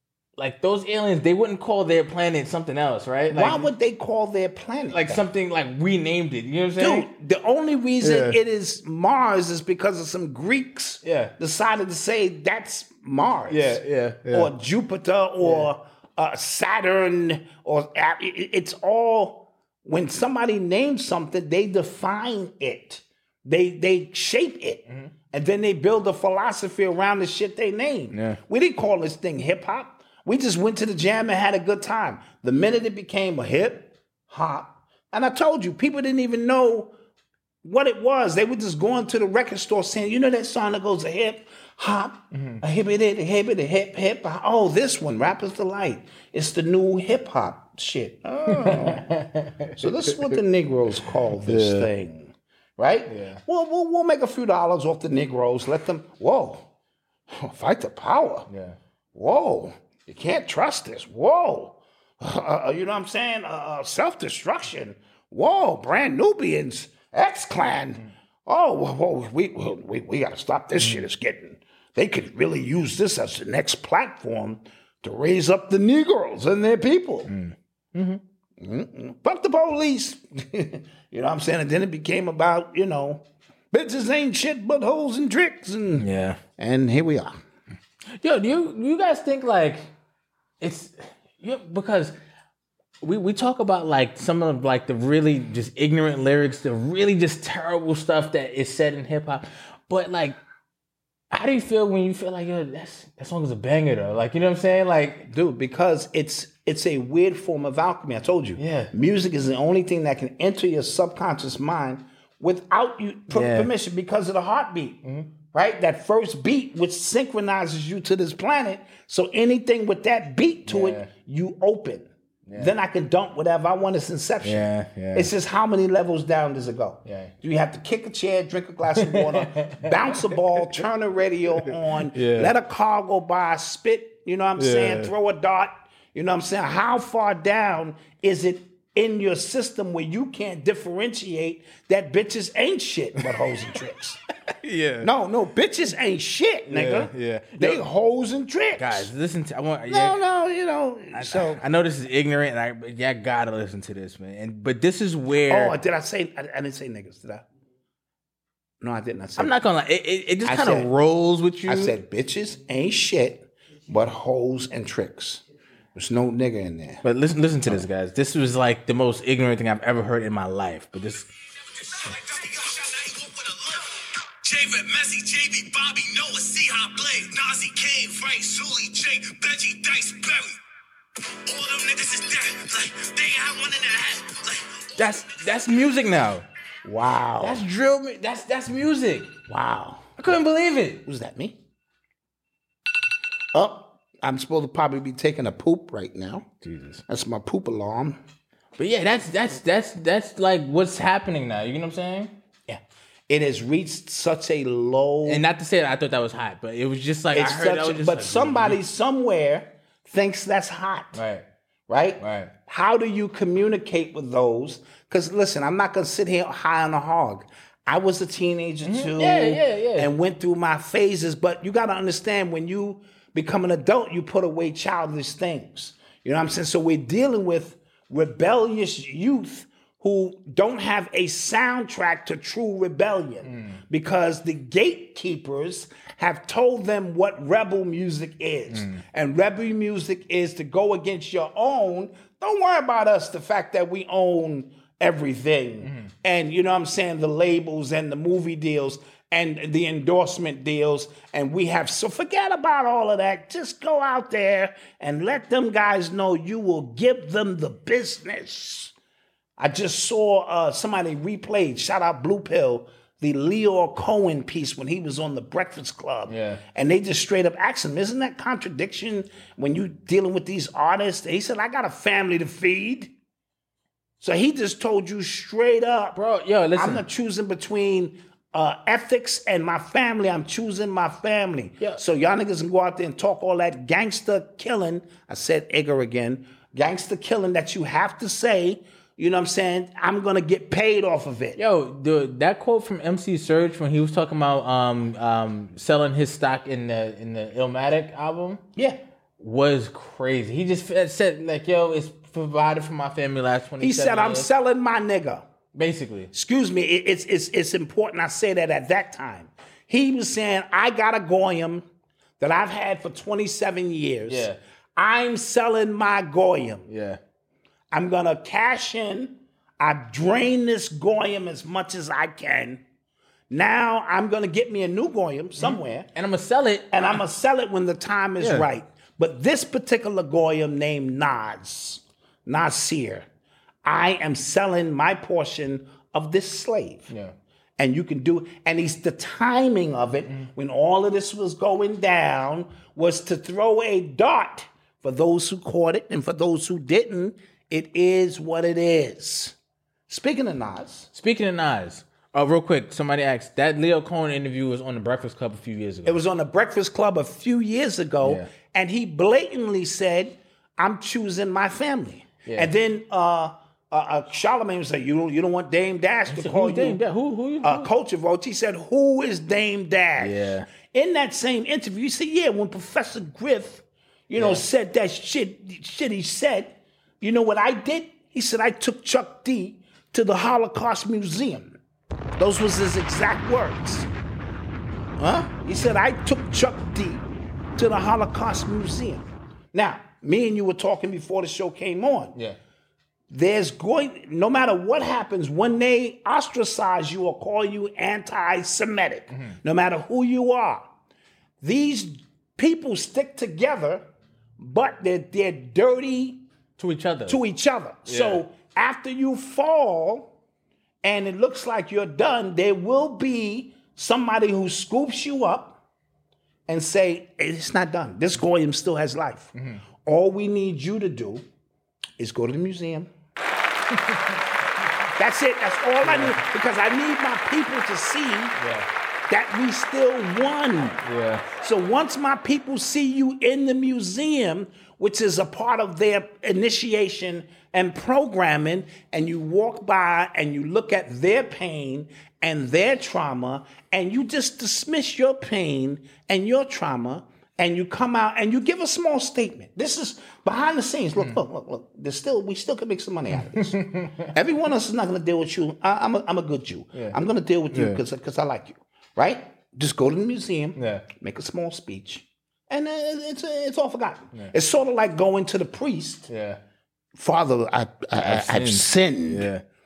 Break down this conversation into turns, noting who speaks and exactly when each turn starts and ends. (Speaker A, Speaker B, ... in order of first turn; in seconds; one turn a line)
Speaker A: 0.4-3.7
Speaker B: 3.3-5.2
Speaker A: 4.9-7.1
Speaker B: 6.8-36.9
Speaker A: 8.0-8.4
Speaker A: 11.0-11.3
Speaker A: 13.5-14.5
Speaker A: 15.4-15.7
Speaker A: 28.1-28.4
Speaker B: 37.6-49.2
Speaker A: 42.3-42.6
Speaker A: 48.5-50.4
Speaker B: 49.8-56.7
Speaker A: 51.4-51.9
Speaker A: 53.1-53.4
Speaker B: 57.3-58.5
Speaker A: 58.5-58.8
Speaker B: 59.1-77.3
Speaker A: 77.3-78.2
Speaker B: 78.6-87.4
Speaker A: 86.0-86.4
Speaker A: 88.2-89.8
Speaker A: 90.6-92.1
Speaker A: 93.0-100.4
Speaker A: 101.3-105.3
Speaker B: 105.3-144.2
Speaker A: 108.6-108.9
Speaker A: 113.3-113.7
Speaker A: 115.0-115.3
Speaker A: 120.7-121.1
Speaker A: 122.5-122.7
Speaker A: 124.4-125.3
Speaker A: 127.0-127.3
Speaker A: 128.9-130.7
Speaker A: 132.1-132.5
Speaker A: 134.6-135.1
Speaker A: 144.5-145.1
Speaker B: 145.0-149.1
Speaker A: 146.7-147.8
Speaker A: 148.8-150.2
Speaker B: 149.9-151.6
Speaker A: 151.1-155.8
Speaker B: 155.5-157.4
Speaker B: 158.8-159.5
Speaker A: 159.4-161.9
Speaker B: 160.4-160.9
Speaker B: 161.7-165.4
Speaker B: 165.9-167.0
Speaker A: 167.0-171.3
Speaker C: 171.7-180.6
Speaker C: 181.4-185.2
Speaker A: 184.9-186.4
Speaker B: 186.8-187.6
Speaker A: 187.4-189.3
Speaker B: 189.5-190.1
Speaker A: 190.2-191.0
Speaker B: 191.0-191.6
Speaker B: 193.5-196.5
Speaker A: 196.6-197.0
Speaker B: 197.1-198.2
Speaker A: 198.8-202.3
Speaker B: 202.7-205.4
Speaker A: 205.2-208.8
Speaker B: 207.3-211.2
Speaker A: 211.1-211.4
Speaker B: 211.9-258.9
Speaker A: 212.2-212.5
Speaker A: 218.8-220.1
Speaker A: 233.4-233.8
Speaker A: 238.7-239.0
Speaker A: 245.8-246.1
Speaker B: 259.6-273.1
Speaker A: 266.3-266.6
Speaker B: 274.2-276.2
Speaker A: 276.1-277.0
Speaker B: 276.7-291.6
Speaker A: 291.6-298.6
Speaker A: 299.4-304.5
Speaker B: 303.8-305.4
Speaker A: 305.7-306.3
Speaker B: 306.3-311.9
Speaker B: 312.4-316.9
Speaker A: 314.3-314.6
Speaker A: 316.9-317.2
Speaker B: 317.9-322.8
Speaker B: 323.5-326.1
Speaker A: 325.6-327.2
Speaker B: 326.9-333.2
Speaker A: 328.4-328.7
Speaker B: 333.8-337.1
Speaker B: 337.8-349.5
Speaker B: 350.1-351.1
Speaker A: 351.1-356.2
Speaker B: 356.0-367.0
Speaker A: 358.2-358.5
Speaker A: 362.4-362.7
Speaker A: 366.3-367.9
Speaker B: 367.6-381.8
Speaker A: 370.2-370.7
Speaker A: 374.4-374.6
Speaker B: 382.4-384.1
Speaker B: 385.2-392.4
Speaker B: 393.3-400.9
Speaker A: 399.3-399.6
Speaker B: 401.6-404.0
Speaker B: 404.6-406.4
Speaker A: 406.8-407.4
Speaker B: 407.3-410.3
Speaker A: 408.1-408.4
Speaker B: 411.0-415.8
Speaker B: 416.7-419.5
Speaker A: 419.5-419.8
Speaker B: 420.0-421.4
Speaker B: 422.2-423.1
Speaker A: 423.9-424.4
Speaker B: 425.1-428.6
Speaker A: 426.0-426.4
Speaker A: 428.6-428.9
Speaker B: 429.3-466.3
Speaker A: 431.0-431.5
Speaker A: 453.3-454.3
Speaker A: 457.7-458.0
Speaker A: 460.8-461.0
Speaker A: 466.3-466.6
Speaker B: 467.1-469.5
Speaker A: 468.2-469.6